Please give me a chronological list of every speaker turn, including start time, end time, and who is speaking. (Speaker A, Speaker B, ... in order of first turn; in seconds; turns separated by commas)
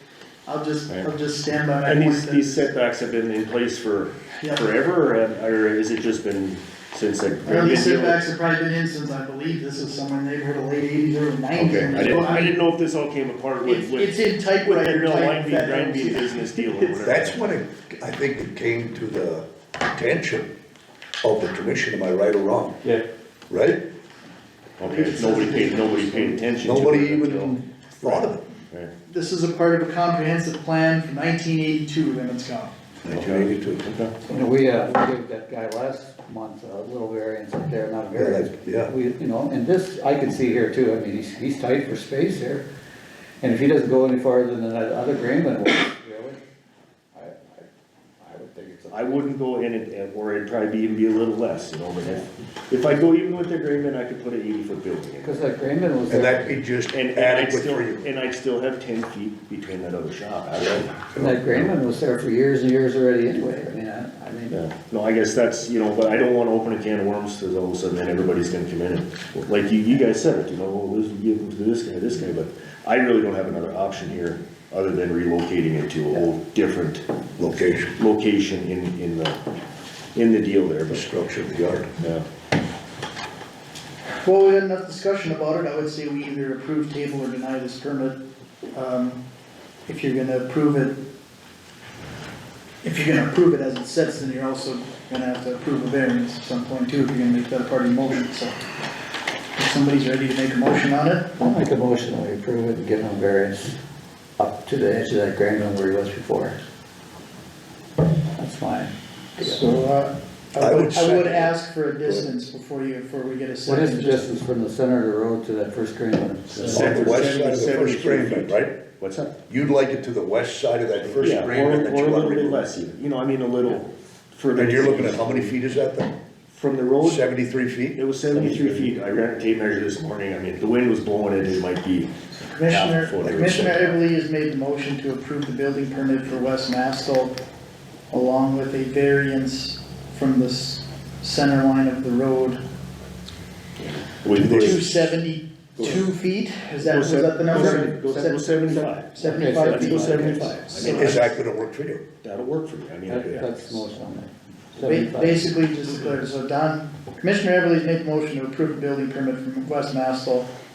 Speaker A: 0.5-2.6, Speaker B: 1.8-8.3, Speaker A: 4.4-4.7, Speaker A: 7.5-12.6, Speaker B: 11.5-17.5, Speaker A: 13.7-17.0, Speaker C: 17.0-20.5, Speaker C: 21.2-22.8, Speaker C: 23.5-23.8, Speaker B: 24.8-28.9, Speaker A: 24.8-26.5, Speaker C: 26.6-28.4, Speaker A: 29.1-32.7, Speaker C: 33.0-33.8, Speaker B: 33.1-34.1, Speaker D: 34.3-42.6, Speaker C: 38.2-38.9, Speaker D: 43.4-46.4, Speaker D: 47.1-47.7, Speaker D: 48.2-49.1, Speaker B: 48.9-55.5, Speaker D: 55.2-56.6, Speaker C: 56.1-58.1, Speaker B: 56.9-61.7, Speaker C: 61.0-61.4, Speaker D: 61.2-64.6, Speaker B: 64.5-77.0, Speaker C: 77.4-77.9, Speaker B: 78.0-79.4, Speaker B: 80.2-81.0, Speaker C: 80.9-81.9, Speaker B: 82.0-82.2, Speaker A: 84.2-88.2, Speaker A: 88.7-89.2, Speaker A: 89.9-90.9, Speaker A: 92.8-98.6, Speaker A: 99.5-101.3, Speaker D: 101.4-103.8, Speaker D: 104.4-106.6, Speaker D: 108.4-109.6, Speaker A: 109.4-114.3, Speaker C: 110.6-111.5, Speaker D: 113.7-116.9, Speaker B: 116.6-119.3, Speaker C: 116.6-118.8, Speaker A: 116.7-117.0, Speaker C: 119.5-122.7, Speaker B: 121.1-125.6, Speaker C: 124.5-126.1, Speaker B: 126.5-127.3, Speaker C: 127.0-128.8, Speaker B: 127.9-133.9, Speaker A: 132.5-137.4, Speaker C: 133.2-133.9, Speaker A: 138.1-142.6, Speaker B: 143.8-145.0, Speaker C: 144.3-145.0, Speaker A: 144.6-151.1, Speaker B: 145.8-146.1, Speaker B: 146.8-151.4, Speaker D: 147.6-147.8, Speaker D: 149.2-150.6, Speaker C: 150.8-152.0, Speaker B: 152.2-153.8, Speaker D: 153.1-155.5, Speaker A: 154.9-160.5